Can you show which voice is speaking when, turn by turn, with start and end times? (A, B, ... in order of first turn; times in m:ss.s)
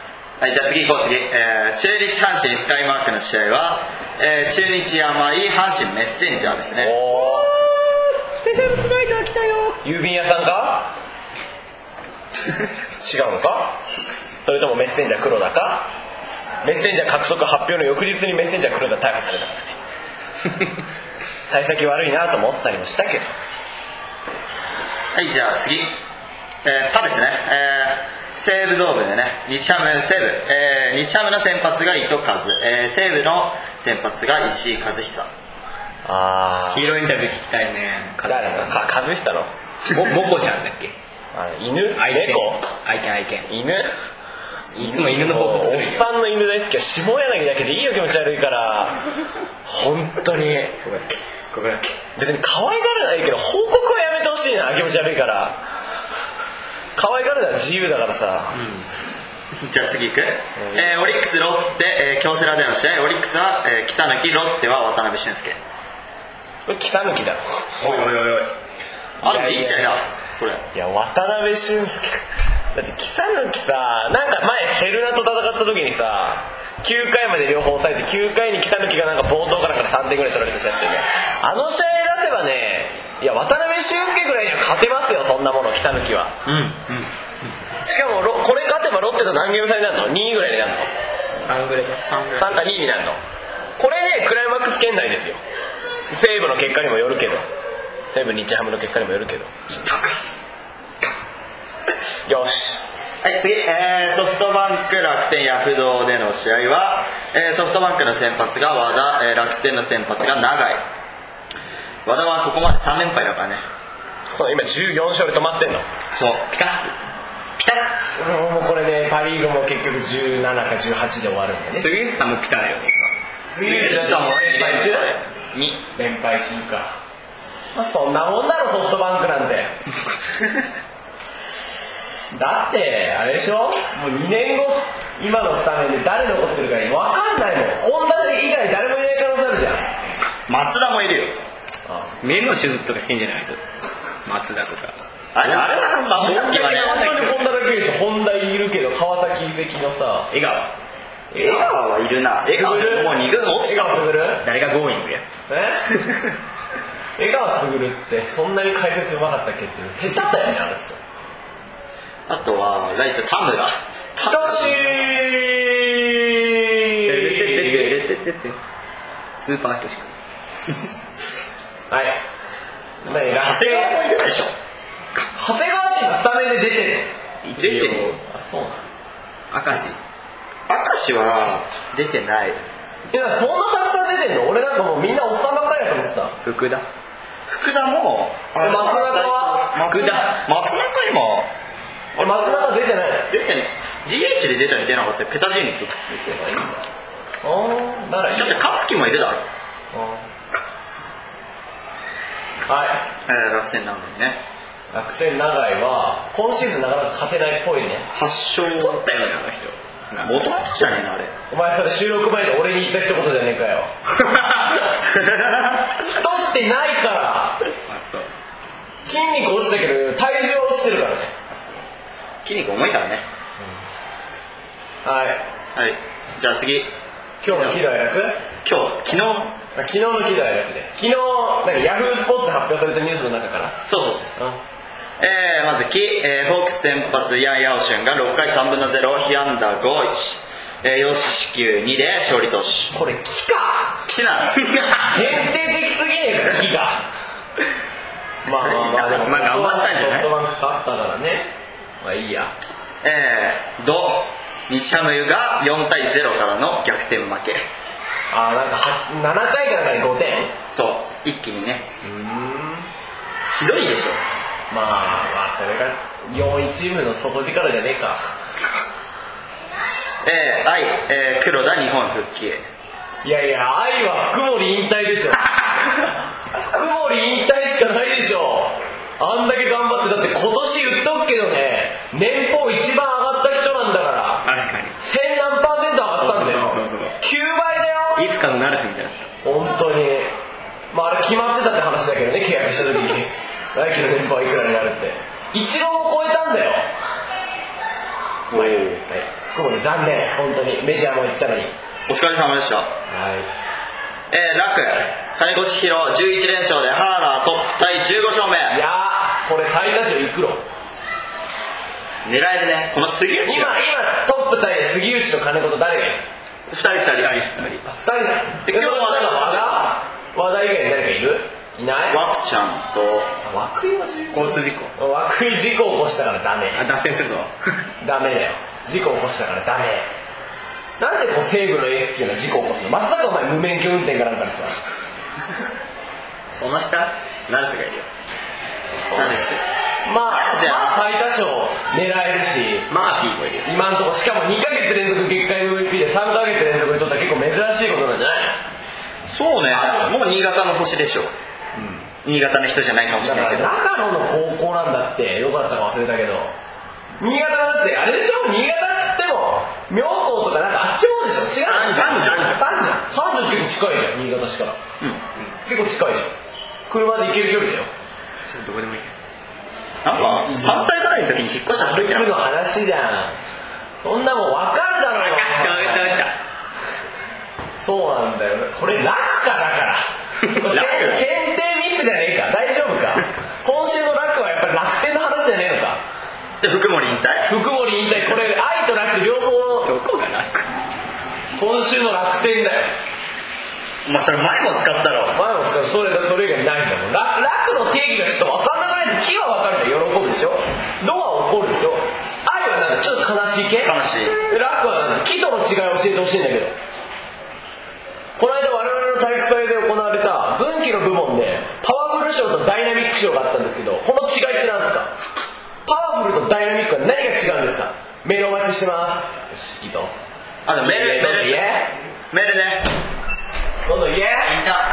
0:00.4-0:06.9 A
0:06.8-0:07.5 B
0:07.2-0:09.8 C
0:09.8-0:10.9 B
0:13.0-0:13.8 B
0:14.4-0:15.9 B
0:16.6-0:19.8 B
0:21.4-0:23.4 B
0:25.1-0:26.0 A
0:26.6-0:35.3 A
0:36.0-0:36.9 B
0:36.7-0:38.8 C
0:38.2-0:39.5 B
0:39.9-0:40.9 C
0:41.3-0:42.6 B
0:42.0-0:43.5 C
0:43.5-0:43.9 B
0:44.7-0:46.1 C
0:44.8-0:49.0 B
0:49.6-0:50.8 B
0:50.8-0:52.0 C
0:52.2-0:55.6 B
0:57.0-0:58.6 B
0:59.6-1:05.6 A
1:00.6-1:01.2 B
1:06.7-1:08.1 B
1:07.8-1:08.5 A
1:09.2-1:09.9 B
1:09.2-1:10.6 A
1:10.7-1:26.4 B
1:26.4-1:27.1 A
1:27.8-1:30.9 B
1:31.3-1:32.1 C
1:32.0-1:32.6 A
1:32.4-1:33.2 B
1:33.8-1:35.4 B
1:36.1-1:37.4 B
1:38.1-1:39.6 B
1:39.7-1:40.3 A
1:42.2-1:42.8 B
1:43.2-1:50.8 A
1:52.0-1:53.6 A
1:54.3-1:55.8 B
1:56.1-1:56.5 A
1:56.5-1:56.9 C
1:57.6-1:57.9 C
1:58.1-2:01.9 B
2:01.8-2:03.1 C
2:03.5-2:05.1 B
2:03.6-2:05.9 A
2:05.9-2:06.9 B
2:07.7-2:09.7 B
2:12.3-2:19.9 B
2:20.5-2:21.4 A
2:21.9-2:22.2 B
2:22.2-2:23.6 C
2:24.2-2:27.5 C
2:25.3-2:27.1 A
2:26.2-2:30.3 B
2:30.3-2:30.7 C
2:31.3-2:31.7 B
2:31.3-2:34.1 A
2:32.4-2:34.4 B
2:34.4-2:35.2 C
2:35.5-2:36.0 B
2:37.2-2:41.0 B
2:42.3-2:45.2 A
2:44.2-2:47.9 B
2:47.0-2:48.6 C
2:49.4-2:50.1 C
2:51.9-2:52.2 B
2:53.0-2:54.0 B
2:53.3-2:54.5 A
2:55.3-2:58.8 B
2:57.4-2:58.2 C
2:59.5-3:00.0 C
3:00.7-3:02.6 A
3:03.1-3:06.4 B
3:06.4-3:06.9 C
3:07.5-3:11.5 A
3:08.6-3:09.8 B
3:09.8-3:10.4 C
3:12.1-3:12.8 A
3:12.2-3:13.3 B
3:13.3-3:16.0 A
3:16.1-3:16.8 B
3:17.4-3:18.6 B
3:18.4-3:19.4 A
3:19.9-3:20.2 B
3:22.7-3:23.1 B
3:23.2-3:24.4 A
3:24.9-3:28.1 B
3:28.1-3:29.0 A
3:28.6-3:30.5 C
3:30.2-3:31.3 A
3:31.5-3:33.9 B
3:34.3-3:34.8 C
3:35.1-3:35.8 A
3:36.0-3:37.6 B
3:37.8-3:38.3 C
3:39.0-3:41.3 B
3:41.5-3:41.8 C
3:42.4-3:43.2 A
3:45.0-3:45.4 B
3:45.7-3:46.9 A
3:47.4-3:48.4 B
3:47.4-3:47.8 A
3:48.6-3:49.6 A
3:49.7-3:53.8 B
3:53.9-3:54.3 A
3:55.2-4:02.9 A
4:02.9-4:04.0 B
4:04.1-4:04.6 A
4:04.7-4:05.1 C
4:04.9-4:07.0 B
4:08.4-4:09.8 A
4:08.4-4:12.5 B
4:09.3-4:10.2 C
4:13.0-4:17.6 A
4:18.3-4:20.6 B
4:20.7-4:21.8 A
4:22.0-4:22.9 B
4:23.5-4:24.2 A
4:24.7-4:28.2 B
4:30.2-4:32.6 A
4:33.2-4:35.5 B
4:36.6-4:44.4 B
4:44.4-4:45.0 C
4:45.0-4:48.2 B
4:46.2-4:47.2 C
4:48.1-4:49.3 C
4:49.4-4:50.3 B
4:50.9-4:56.9 B
4:58.5-4:59.0 A
4:58.5-5:01.7 B
5:02.1-5:02.9 A
5:03.1-5:03.5 B
5:04.3-5:08.8 A
5:08.7-5:10.6 B
5:12.2-5:13.8 A
5:13.4-5:16.2 B
5:16.7-5:17.3 A
5:17.2-5:17.8 C
5:17.8-5:22.2 B
5:18.6-5:19.9 A
5:22.1-5:23.3 A
5:23.4-5:26.8 B
5:24.3-5:24.9 C
5:26.7-5:27.8 C
5:28.0-5:30.1 B
5:31.0-5:34.8 B
5:36.5-5:38.1 C
5:39.1-5:39.4 B
5:39.1-5:39.6 A
5:40.0-5:42.9 B
5:40.3-5:41.0 A
5:42.9-5:43.7 C
5:43.6-5:48.6 B
5:49.2-5:51.3 A
5:49.7-5:50.1 B
5:51.7-5:52.0 B
5:52.2-5:53.7 A
5:53.2-5:56.5 B
5:57.2-6:04.8 B
6:01.6-6:02.6 A
6:05.6-6:06.3 B
6:06.9-6:07.9 B
6:08.4-6:09.1 C
6:10.0-6:12.4 A
6:10.2-6:10.9 B
6:11.7-6:13.4 B
6:14.0-6:16.2 B
6:15.1-6:16.4 C
6:17.8-6:26.0 B
6:20.7-6:21.2 A
6:26.6-6:27.5 A
6:27.4-6:29.9 B
6:29.8-6:30.7 C
6:31.6-6:32.9 B
6:34.0-6:35.4 A
6:35.3-6:46.7 B
6:43.8-6:44.4 A
6:48.4-6:55.1 B
6:55.8-7:00.1 B
7:00.6-7:01.7 A
7:00.8-7:01.9 B
7:02.3-7:02.9 A
7:03.8-7:04.6 B
7:04.5-7:04.8 C